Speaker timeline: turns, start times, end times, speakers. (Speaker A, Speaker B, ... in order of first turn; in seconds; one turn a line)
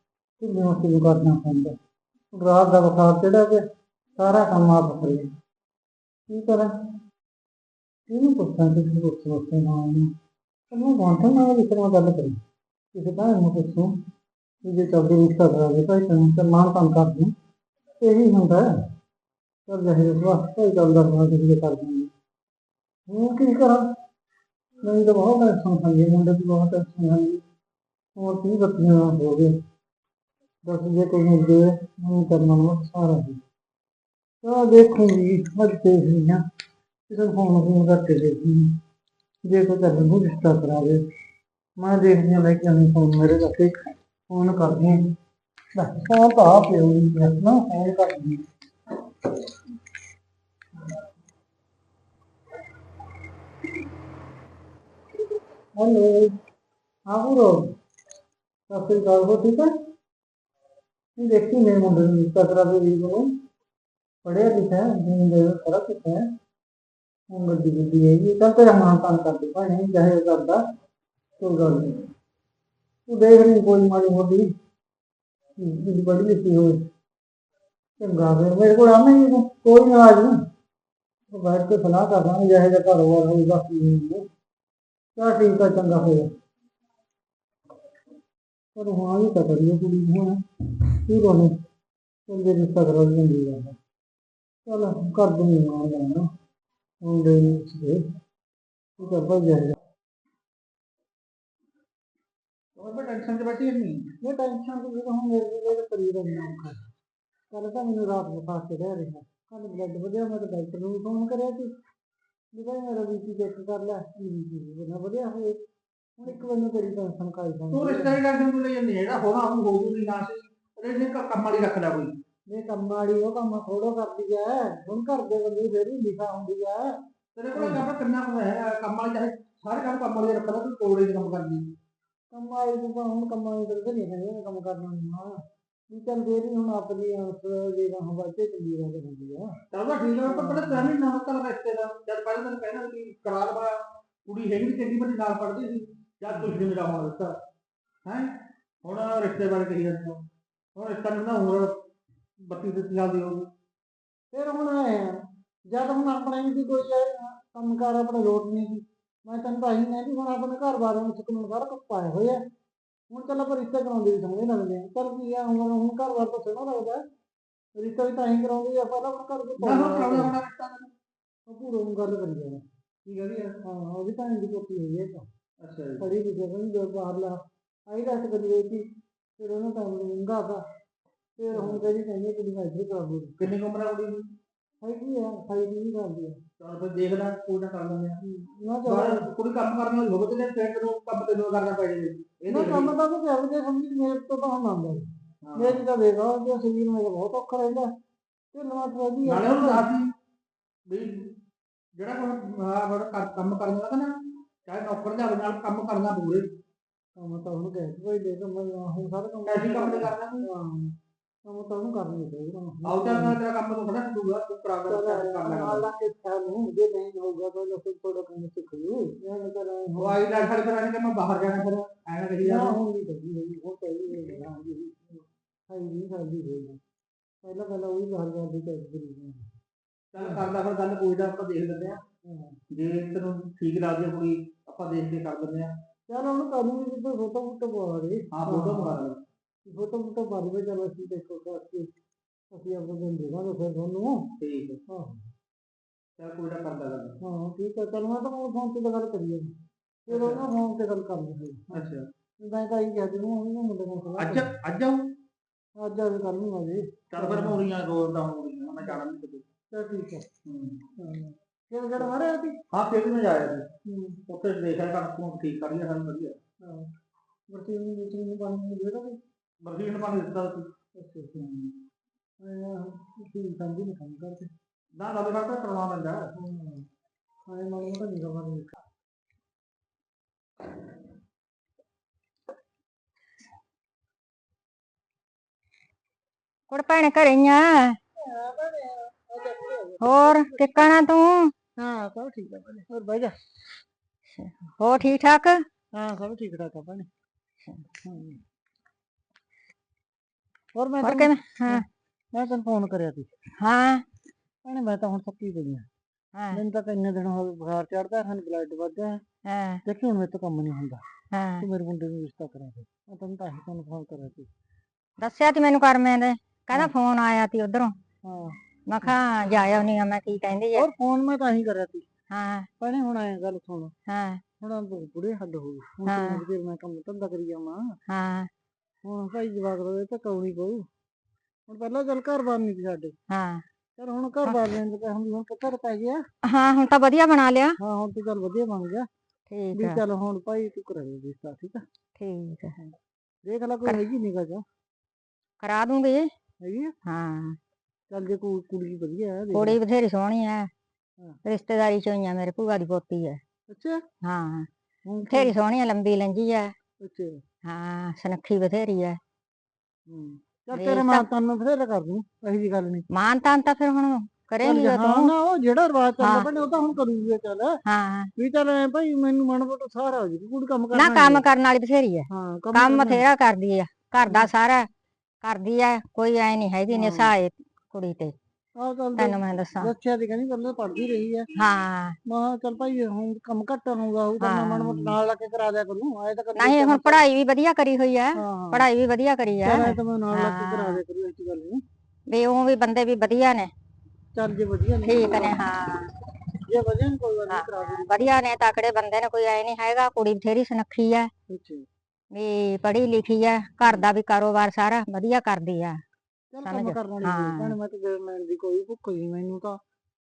Speaker A: 0.4-1.8
Speaker A: 2.3-3.6
Speaker A: 4.2-5.3
Speaker A: 6.3-6.7
Speaker A: 8.1-10.1
Speaker A: 10.7-12.4
Speaker A: 12.9-13.9
Speaker A: 14.6-17.3
Speaker A: 18.0-18.8
Speaker A: 19.7-22.1
Speaker A: 23.1-23.9
Speaker A: 24.8-27.4
Speaker A: 28.1-29.6
Speaker A: 30.6-33.4
Speaker A: 34.4-36.4
Speaker A: 37.1-38.8
Speaker A: 39.4-41.0
Speaker A: 41.8-45.0
Speaker A: 45.7-48.4
Speaker A: 55.7-56.3
Speaker A: 57.1-57.7
Speaker A: 58.7-59.7
Speaker A: 61.2-63.3
Speaker A: 64.2-66.2
Speaker A: 67.3-70.6
Speaker A: 71.4-72.1
Speaker A: 73.1-74.5
Speaker A: 75.6-76.9
Speaker A: 78.0-80.4
Speaker A: 81.3-84.2
Speaker A: 85.2-86.3
Speaker A: 88.7-90.4
Speaker A: 91.0-91.6
Speaker A: 92.3-93.8
Speaker A: 94.7-96.3
Speaker A: 97.0-98.0
Speaker A: 99.0-99.8
Speaker B: 102.8-104.1
Speaker A: 104.2-106.8
Speaker A: 107.5-111.7
Speaker A: 112.5-115.6
Speaker A: 116.2-118.2
Speaker B: 117.7-122.2
Speaker A: 122.5-127.0
Speaker B: 127.3-131.7
Speaker A: 127.5-127.9
Speaker A: 132.3-139.6
Speaker B: 139.7-147.4
Speaker A: 140.2-140.9
Speaker B: 148.1-151.8
Speaker B: 152.4-153.5
Speaker A: 154.3-162.4
Speaker A: 163.1-167.0
Speaker A: 167.8-170.3
Speaker B: 169.6-170.9
Speaker A: 171.5-172.6
Speaker B: 173.1-173.5
Speaker A: 173.5-175.3
Speaker B: 175.6-176.0
Speaker A: 176.0-178.8
Speaker A: 179.4-180.6
Speaker A: 181.4-183.4
Speaker B: 181.5-181.8
Speaker B: 183.4-184.3
Speaker A: 184.8-186.4
Speaker B: 186.6-188.2
Speaker A: 188.2-189.2
Speaker B: 188.8-192.9
Speaker A: 192.5-197.9
Speaker B: 195.4-195.8
Speaker A: 198.5-199.9
Speaker B: 199.2-200.1
Speaker B: 200.9-201.3
Speaker B: 202.0-206.5
Speaker A: 207.2-210.9
Speaker B: 209.5-210.4
Speaker A: 211.4-213.4
Speaker B: 212.8-215.8
Speaker A: 214.9-220.2
Speaker B: 220.0-222.8
Speaker A: 222.4-225.0
Speaker A: 225.7-226.8
Speaker A: 227.4-229.5
Speaker B: 230.1-232.0
Speaker A: 232.2-232.6
Speaker B: 232.7-235.7
Speaker A: 236.1-239.0
Speaker B: 238.3-239.2
Speaker A: 239.7-241.9
Speaker A: 242.5-244.4
Speaker B: 244.4-244.8
Speaker A: 244.9-245.2
Speaker B: 246.2-247.2
Speaker A: 247.2-249.5
Speaker A: 250.1-251.9
Speaker B: 250.1-250.4
Speaker B: 251.7-252.1
Speaker A: 252.4-254.5
Speaker B: 254.2-255.1
Speaker A: 255.8-257.6
Speaker B: 257.1-259.4
Speaker A: 259.7-260.2
Speaker B: 260.4-260.9
Speaker A: 261.0-262.6
Speaker B: 262.7-263.7
Speaker A: 263.9-264.2
Speaker B: 264.3-266.4
Speaker A: 266.6-266.9
Speaker A: 267.5-269.2
Speaker B: 269.6-270.7
Speaker A: 270.9-271.7
Speaker A: 272.4-274.5
Speaker B: 274.9-276.3
Speaker A: 276.3-276.8
Speaker A: 277.5-278.7
Speaker C: 286.7-288.0
Speaker A: 288.2-290.9
Speaker C: 290.0-291.5
Speaker A: 291.8-293.4
Speaker C: 294.3-295.6
Speaker A: 295.9-297.1
Speaker A: 298.0-298.4
Speaker A: 300.7-301.8
Speaker C: 301.0-301.9
Speaker A: 302.3-303.3
Speaker C: 303.6-304.0
Speaker A: 304.6-305.9
Speaker C: 306.3-306.6
Speaker A: 306.5-309.2
Speaker C: 309.4-309.8
Speaker A: 309.8-311.0
Speaker C: 311.3-311.6
Speaker A: 311.6-314.5
Speaker C: 315.2-317.9
Speaker A: 318.2-319.1
Speaker C: 318.9-320.9
Speaker A: 320.7-322.1
Speaker C: 322.3-322.7
Speaker A: 322.8-323.9
Speaker C: 324.1-324.4
Speaker A: 324.6-328.0
Speaker C: 326.1-326.4
Speaker C: 328.1-328.5
Speaker A: 329.0-330.9
Speaker A: 331.7-333.1
Speaker C: 333.3-333.6
Speaker A: 334.0-336.2
Speaker C: 336.4-337.8
Speaker A: 337.8-339.1
Speaker C: 339.5-340.0
Speaker A: 339.7-341.8
Speaker C: 342.2-342.8
Speaker A: 343.4-344.6
Speaker C: 345.6-346.3
Speaker A: 346.6-346.9
Speaker C: 347.0-347.6
Speaker A: 348.1-349.8
Speaker C: 349.5-350.7
Speaker C: 351.4-353.4
Speaker A: 353.7-354.0
Speaker C: 354.2-354.7
Speaker A: 355.1-355.5
Speaker C: 355.3-356.7
Speaker A: 357.0-357.4
Speaker C: 357.6-359.2
Speaker A: 360.1-363.0
Speaker C: 360.7-361.2
Speaker C: 363.1-365.3
Speaker A: 364.6-367.8
Speaker C: 366.2-366.5
Speaker C: 367.9-368.3
Speaker A: 368.4-371.4
Speaker C: 370.9-374.9
Speaker A: 372.3-373.2
Speaker C: 375.4-378.3
Speaker A: 376.9-377.3
Speaker A: 378.8-381.5
Speaker C: 379.2-379.9
Speaker C: 381.5-382.2
Speaker A: 382.3-387.2
Speaker C: 384.4-385.1
Speaker C: 386.6-391.0
Speaker A: 388.4-388.9
Speaker A: 389.6-391.8
Speaker C: 392.3-393.7
Speaker A: 394.3-395.6
Speaker C: 395.0-396.1
Speaker A: 396.6-398.3
Speaker C: 397.5-401.3
Speaker A: 401.5-401.9
Speaker C: 402.3-406.0
Speaker A: 406.5-409.8
Speaker C: 406.6-407.7